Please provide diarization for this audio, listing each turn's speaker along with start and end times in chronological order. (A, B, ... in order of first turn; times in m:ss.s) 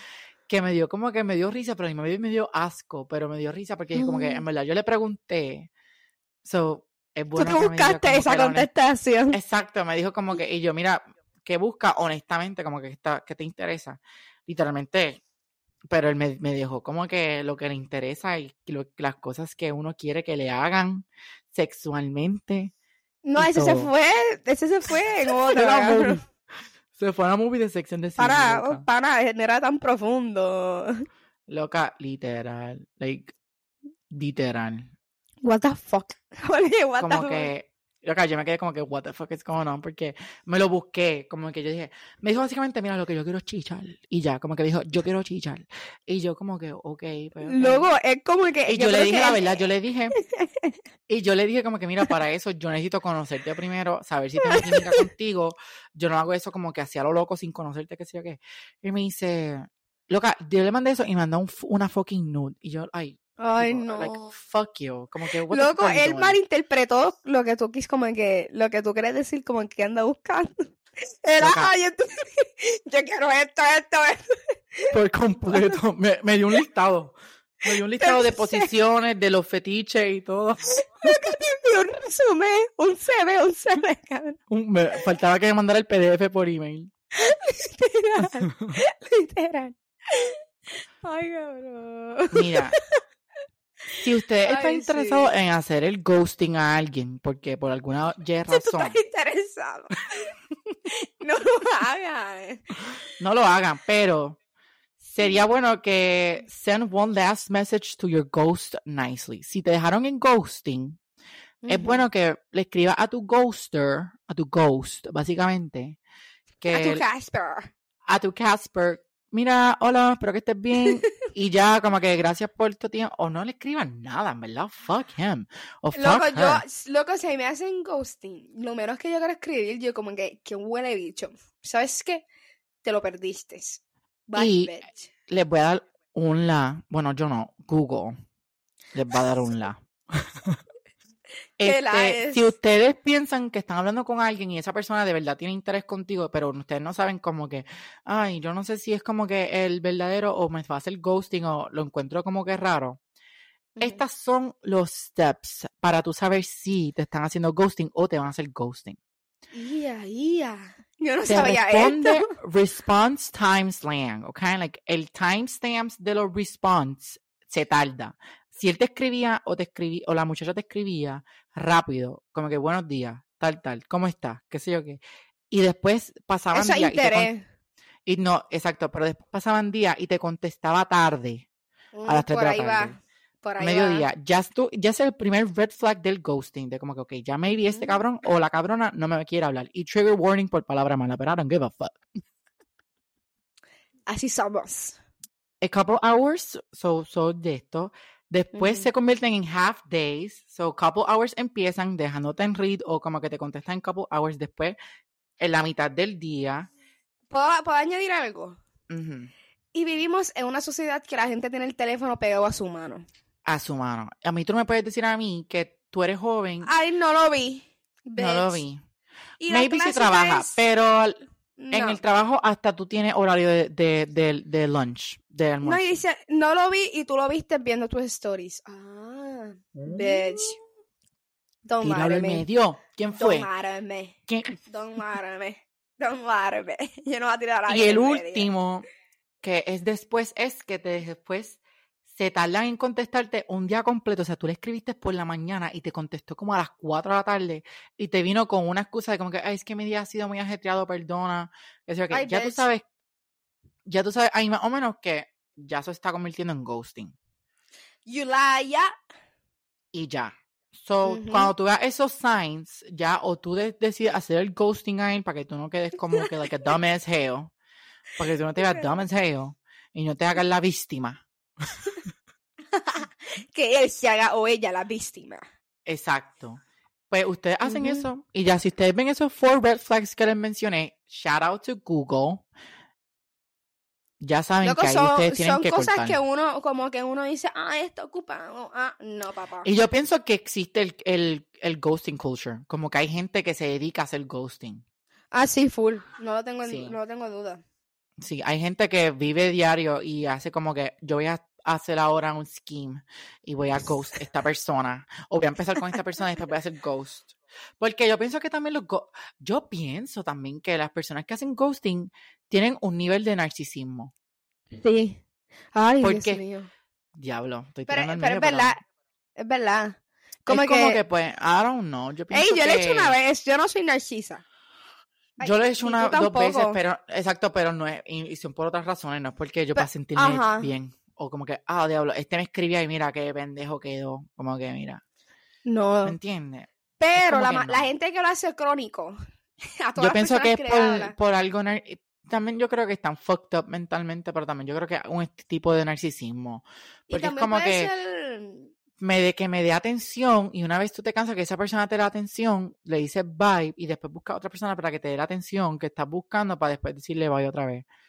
0:00.5-0:05.7 A
0:04.0-0:04.4 B
0:06.4-0:08.7 A
0:07.4-0:09.4 B
0:09.3-0:15.2 A
0:15.9-0:22.7 A
0:23.2-0:26.2 B
0:23.4-0:23.9 A
0:25.3-0:26.2 A
0:27.0-0:28.9 A
0:28.2-0:31.1 B
0:31.5-0:33.3 A
0:34.1-0:34.9 A
0:35.4-0:37.5 B
0:37.0-0:47.9 A
0:47.4-0:50.8 B
0:48.7-0:50.1 A
0:51.1-1:06.4 A
0:54.4-0:55.1 B
1:03.4-1:04.3 B
1:05.5-1:10.7 B
1:11.2-1:15.0 B
1:11.4-1:11.7 A
1:14.9-1:21.2 A
1:15.5-1:15.8 B
1:17.9-1:18.7 B
1:21.0-1:24.4 B
1:24.5-1:26.9 A
1:27.2-1:30.4 B
1:28.5-1:28.8 A
1:31.0-1:33.0 B
1:32.3-1:32.8 A
1:33.9-1:35.3 B
1:34.0-1:39.0 A
1:38.5-1:40.3 B
1:40.9-1:43.0 B
1:43.2-1:44.4 A
1:45.0-1:51.0 A
1:51.6-1:52.0 B
1:51.7-1:56.0 A
1:56.6-1:57.0 A
1:56.7-1:57.7 B
1:58.1-2:06.6 A
2:00.8-2:01.1 B
2:05.9-2:12.2 B
2:12.8-2:15.1 B
2:14.4-2:18.2 A
2:18.9-2:20.6 A
2:21.6-2:33.0 A
2:21.6-2:22.5 B
2:33.8-2:34.0 B
2:33.8-2:39.0 A
2:39.5-2:42.4 B
2:41.3-2:57.3 A
2:56.5-2:57.4 B
2:58.1-3:01.5 A
3:01.9-3:04.1 B
3:02.1-3:03.0 A
3:03.6-3:12.0 A
3:07.6-3:08.0 B
3:14.1-3:15.0 B
3:15.6-3:24.8 A
3:18.5-3:18.9 B
3:25.4-3:26.7 A
3:27.3-3:28.6 B
3:28.9-3:29.3 A
3:29.7-3:33.1 B
3:33.4-3:36.7 A
3:36.6-3:38.6 B
3:38.2-3:38.8 A
3:39.4-3:40.6 B
3:39.5-3:41.2 A
3:41.6-3:42.0 B
3:41.7-3:46.0 A
3:45.6-3:50.6 B
3:49.8-3:50.6 A
3:51.6-3:52.4 B
3:51.8-3:53.5 A
3:53.2-3:54.2 B
3:54.3-3:54.6 A
3:54.7-3:58.5 B
3:57.7-3:58.9 A
3:59.4-4:12.8 A
4:12.1-4:12.7 B
4:13.9-4:17.1 A
4:18.1-4:18.9 B
4:19.9-4:27.5 A
4:21.0-4:21.5 B
4:26.1-4:26.7 B
4:28.2-4:31.2 A
4:28.6-4:28.9 B
4:32.7-4:35.4 B
4:35.9-4:42.5 A
4:37.6-4:38.1 B
4:44.2-4:46.2 A
4:44.6-4:49.7 B
4:49.6-4:54.8 A
4:55.3-4:57.6 B
4:56.6-4:57.0 A
4:58.2-5:14.1 A
5:14.7-5:15.2 B
5:15.7-5:16.7 B
5:16.0-5:16.4 A
5:17.1-5:18.7 A
5:17.9-5:18.8 B
5:19.4-5:21.0 B
5:20.5-5:23.1 A
5:22.3-5:24.4 B
5:25.4-5:26.8 B
5:25.4-5:35.0 A
5:29.8-5:30.7 B
5:35.6-5:36.2 B
5:36.0-5:37.9 A
5:37.0-5:39.2 B
5:39.8-5:41.1 B
5:40.0-5:47.9 A
5:47.1-5:48.7 B
5:49.0-5:57.9 A